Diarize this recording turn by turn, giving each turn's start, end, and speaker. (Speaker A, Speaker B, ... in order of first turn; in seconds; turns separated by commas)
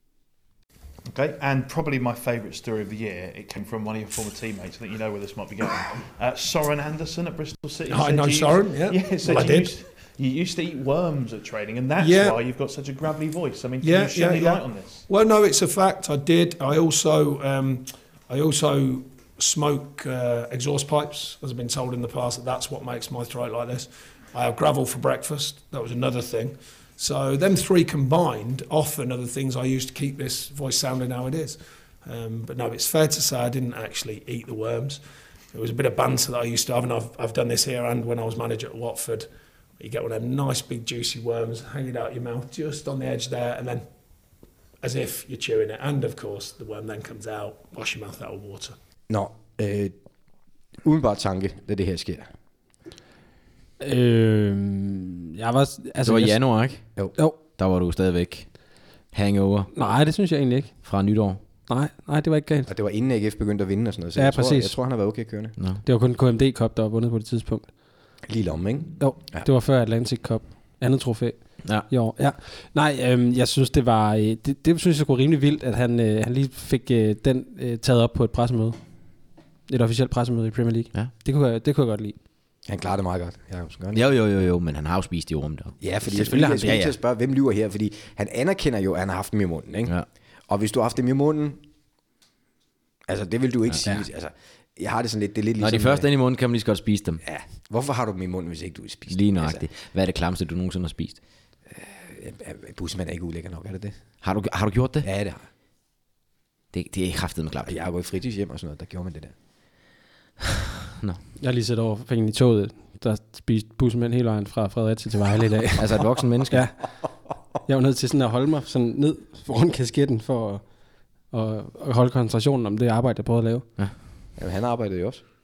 Speaker A: 1.1-15.1, Speaker B: 7.9-9.7, Speaker B: 12.0-12.4, Speaker B: 13.8-35.0, Speaker B: 35.5-39.3, Speaker B: 39.8-43.8, Speaker B: 44.8-48.7, Speaker C: 49.1-49.9, Speaker C: 50.8-52.3, Speaker D: 53.8-56.4, Speaker E: 56.0-56.9, Speaker E: 57.5-58.5, Speaker E: 59.1-59.7, Speaker D: 59.7-60.7, Speaker E: 60.8-61.4, Speaker D: 61.7-62.7, Speaker C: 62.7-65.5, Speaker D: 64.2-64.7, Speaker E: 65.6-65.8, Speaker D: 65.8-67.7, Speaker C: 68.2-69.5, Speaker D: 69.0-78.8, Speaker D: 79.7-82.2, Speaker C: 82.6-84.0, Speaker E: 83.9-85.8, Speaker C: 85.8-90.0, Speaker D: 86.1-86.8, Speaker E: 86.6-86.9, Speaker C: 90.5-91.6, Speaker C: 93.1-96.1, Speaker E: 95.6-97.2, Speaker C: 97.2-99.6, Speaker E: 99.1-101.2, Speaker C: 101.7-104.0, Speaker E: 104.2-105.0, Speaker C: 105.0-105.5, Speaker E: 106.7-107.7, Speaker C: 107.6-109.3, Speaker D: 111.4-115.9, Speaker E: 115.8-116.7, Speaker D: 117.7-120.6, Speaker D: 121.3-123.7, Speaker C: 124.4-125.2